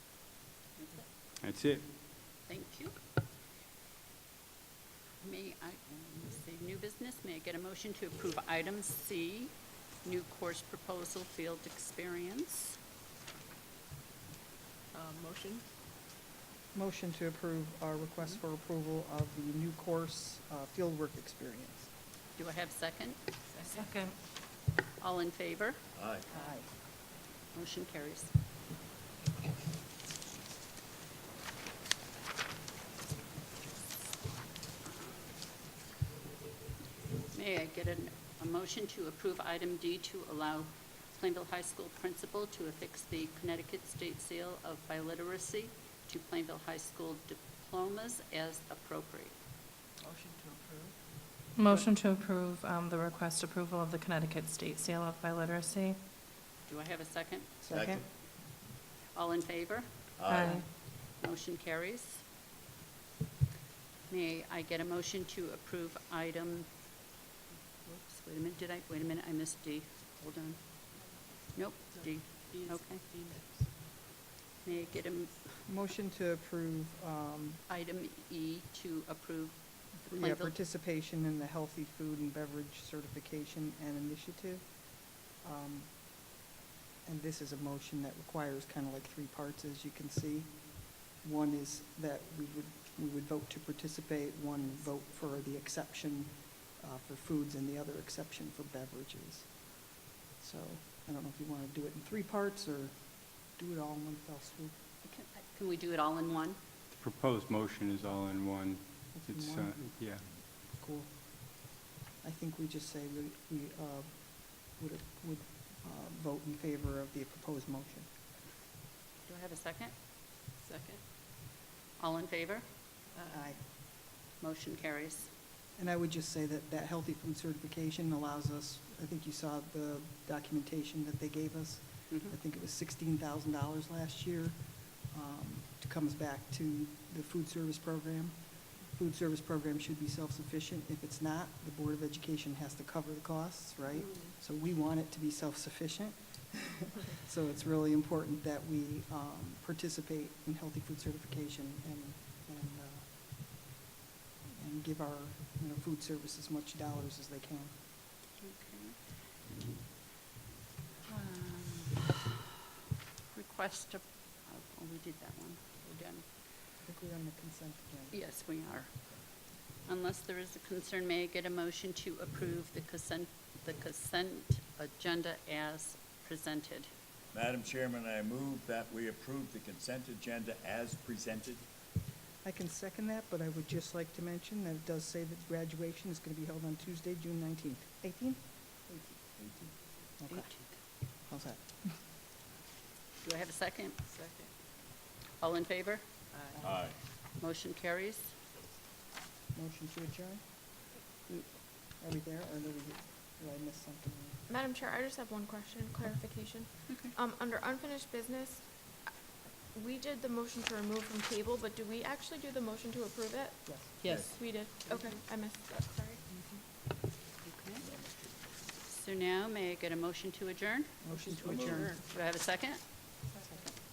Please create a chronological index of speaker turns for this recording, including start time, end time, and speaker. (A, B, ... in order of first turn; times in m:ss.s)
0:00.8-0:01.1 A
0:01.4-0:01.9 B
0:02.4-0:03.0 A
0:05.2-0:12.8 A
0:14.9-0:15.7 C
0:16.7-0:21.9 D
0:22.4-0:23.2 A
0:23.5-0:24.1 C
0:23.7-0:24.1 E
0:25.0-0:25.8 A
0:25.9-0:26.3 F
0:26.3-0:26.7 D
0:27.5-0:28.3 A
0:37.3-0:49.4 A
0:50.0-0:50.9 C
0:51.5-0:56.0 E
0:56.6-0:57.5 A
0:57.6-0:58.0 D
0:57.7-0:58.0 F
0:59.1-1:00.0 A
1:00.2-1:00.6 F
1:00.3-1:00.7 E
1:01.0-1:02.2 A
1:04.1-1:06.7 A
1:07.9-1:13.0 A
1:11.7-1:13.8 C
1:14.6-1:15.6 A
1:15.6-1:17.6 D
1:17.7-1:20.5 A
1:20.0-1:26.3 D
1:27.0-1:44.8 D
1:45.0-1:46.6 A
1:46.9-1:50.2 B
1:49.1-1:58.2 D
1:59.2-2:00.0 A
2:00.6-2:01.0 C
2:02.0-2:02.7 A
2:03.1-2:03.4 C
2:03.2-2:03.6 D
2:04.4-2:05.3 A
2:05.7-2:33.2 D
2:34.5-2:37.8 D
2:38.4-2:39.3 A
2:41.1-2:42.2 A
2:43.3-2:46.3 A
2:46.8-2:48.3 D
2:48.1-2:56.9 A
2:57.3-3:01.6 F
3:02.4-3:09.2 D
3:09.4-3:09.7 F
3:10.2-3:12.0 D
3:10.3-3:10.8 A
3:13.2-3:14.0 A
3:14.0-3:14.5 C
3:15.4-3:16.1 A
3:16.3-3:16.6 C
3:16.6-3:16.8 D
3:16.6-3:17.0 F
3:17.3-3:18.4 A
3:19.5-3:20.4 D
3:22.0-3:24.4 D
3:24.5-3:29.1 G
3:29.7-3:36.2 G
3:33.6-3:34.0 D
3:34.0-3:34.3 A
3:34.0-3:34.4 F
3:36.3-3:36.6 D
3:37.4-3:37.9 A
3:37.8-3:38.3 F
3:38.8-3:41.0 A
3:41.0-3:42.0 D
3:41.1-3:42.0 C
3:41.4-3:41.9 F
3:42.0-3:43.0 A